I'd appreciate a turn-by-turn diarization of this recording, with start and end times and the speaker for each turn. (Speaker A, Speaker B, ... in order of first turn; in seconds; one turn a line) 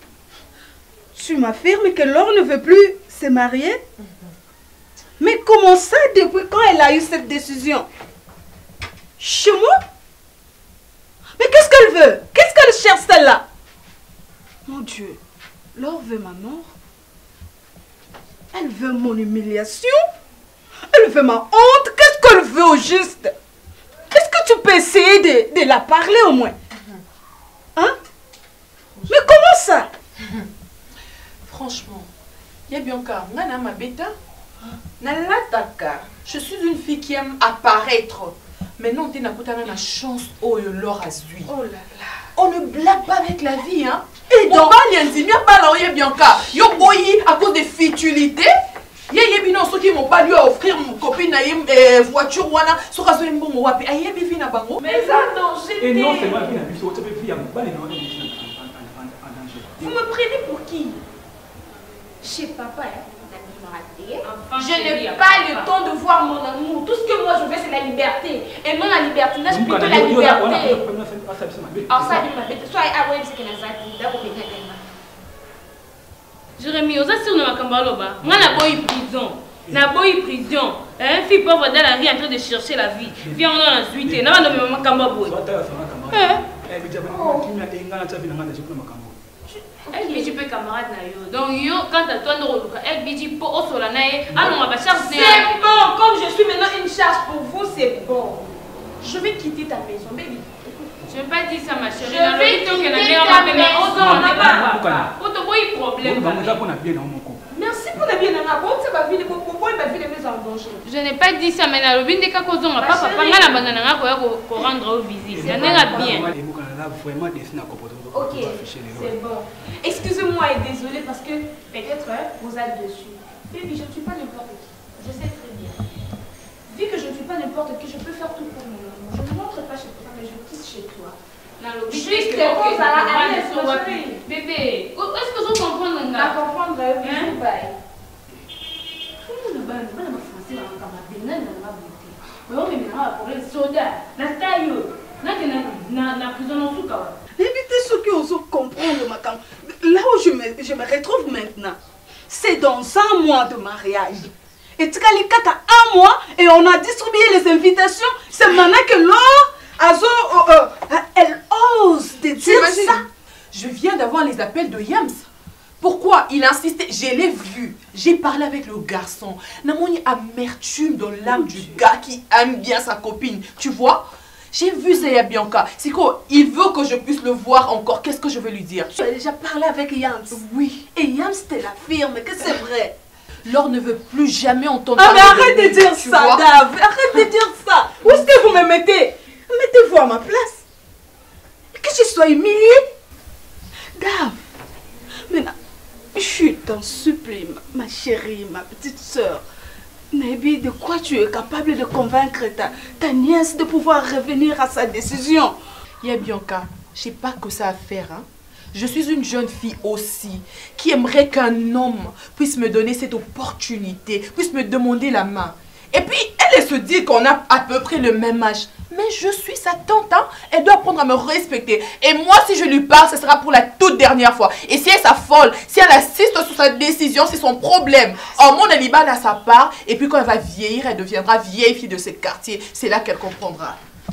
Speaker A: 1.1-3.8
Speaker A: 5.2-7.9
Speaker A: 9.2-9.8
Speaker A: 11.4-13.4
Speaker A: 14.7-15.2
Speaker A: 15.8-16.7
Speaker A: 18.5-20.1
Speaker A: 20.9-23.3
Speaker A: 24.1-26.6
Speaker A: 29.1-29.9
Speaker B: 31.5-32.1
Speaker B: 32.7-34.1
Speaker B: 34.9-41.5
Speaker A: 41.5-42.3
Speaker B: 42.4-48.5
Speaker A: 44.3-45.0
Speaker A: 46.4-46.9
Speaker B: 49.1-55.0
Speaker C: 54.8-56.6
Speaker D: 54.9-55.2
Speaker E: 55.8-60.0
Speaker C: 59.8-61.0
Speaker C: 62.2-70.9
Speaker D: 64.2-65.8
Speaker E: 69.5-72.3
Speaker C: 71.9-74.8
Speaker D: 76.6-85.4
Speaker E: 78.2-78.9
Speaker E: 84.0-89.2
Speaker D: 86.1-86.4
Speaker C: 87.1-87.5
Speaker C: 89.5-90.4
Speaker D: 89.9-96.0
Speaker E: 94.3-94.6
Speaker C: 94.8-100.9
Speaker D: 101.1-106.6
Speaker C: 102.0-104.7
Speaker E: 103.9-105.1
Speaker E: 106.0-107.4
Speaker C: 107.5-110.8
Speaker D: 110.8-116.3
Speaker C: 112.8-113.7
Speaker E: 115.3-119.2
Speaker C: 115.4-116.3
Speaker C: 118.1-125.8
Speaker C: 126.7-134.2
Speaker D: 131.6-136.4
Speaker C: 136.1-137.8
Speaker D: 137.0-137.4
Speaker D: 139.2-147.2
Speaker A: 147.4-151.8
Speaker A: 152.3-163.0
Speaker B: 162.4-163.0
Speaker B: 163.5-165.3
Speaker B: 165.8-178.9
Speaker A: 171.2-171.8
Speaker A: 178.9-182.9
Speaker B: 183.4-186.4
Speaker A: 185.0-190.6
Speaker A: 191.8-192.8
Speaker A: 194.0-194.4
Speaker A: 195.3-195.5
Speaker A: 196.2-199.4
Speaker A: 200.1-205.6
Speaker B: 206.0-233.8
Speaker A: 228.3-228.6